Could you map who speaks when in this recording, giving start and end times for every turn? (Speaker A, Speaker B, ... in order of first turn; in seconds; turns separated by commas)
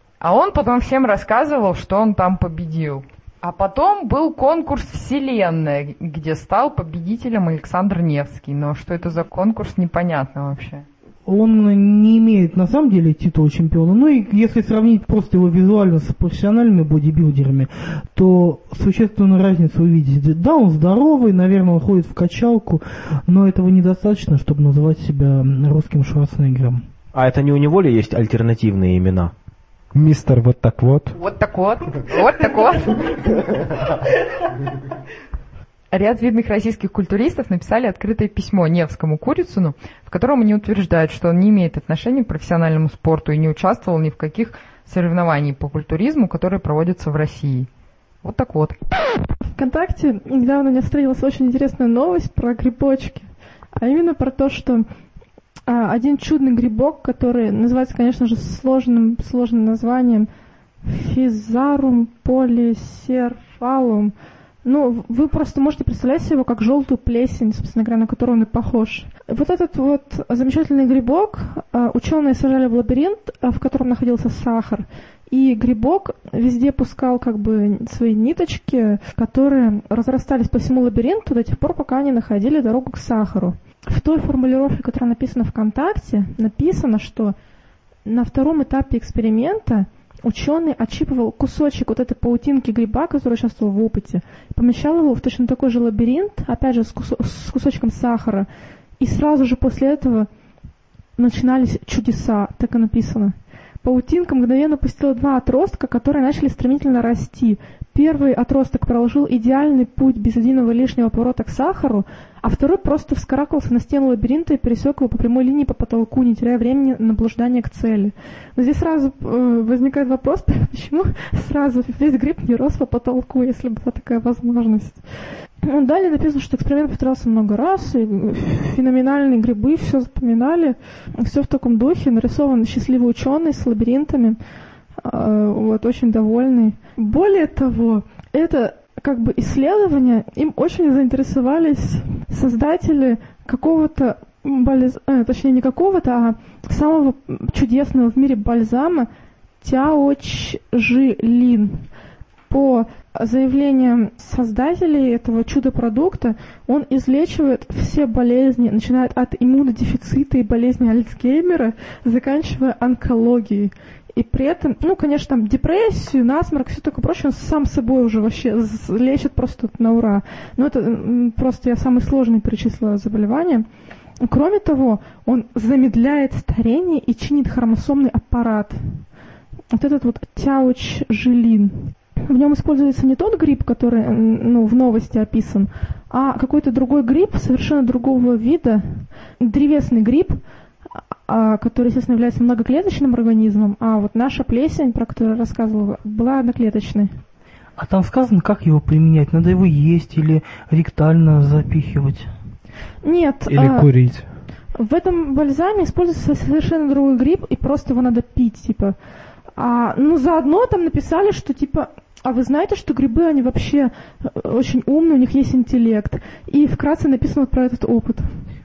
Speaker A: 0.2-10.8, Speaker B: 11.2-26.9, Speaker C: 27.1-29.3, Speaker D: 29.9-31.2, Speaker A: 31.2-33.7, Speaker A: 35.9-47.7, Speaker A: 48.2-48.8, Speaker E: 49.5-54.9, Speaker E: 55.7-60.3, Speaker E: 60.8-64.1, Speaker E: 64.6-87.3, Speaker E: 88.0-98.5, Speaker E: 99.0-100.3, Speaker E: 101.2-125.0, Speaker E: 125.6-134.4, Speaker E: 135.0-149.1, Speaker E: 149.6-151.9, Speaker E: 152.5-173.7, Speaker E: 174.2-179.0, Speaker E: 179.7-190.4, Speaker E: 191.2-197.2, Speaker B: 197.8-202.3, Speaker E: 203.0-203.9, Speaker D: 203.5-204.3, Speaker E: 204.7-208.9, Speaker E: 209.5-218.4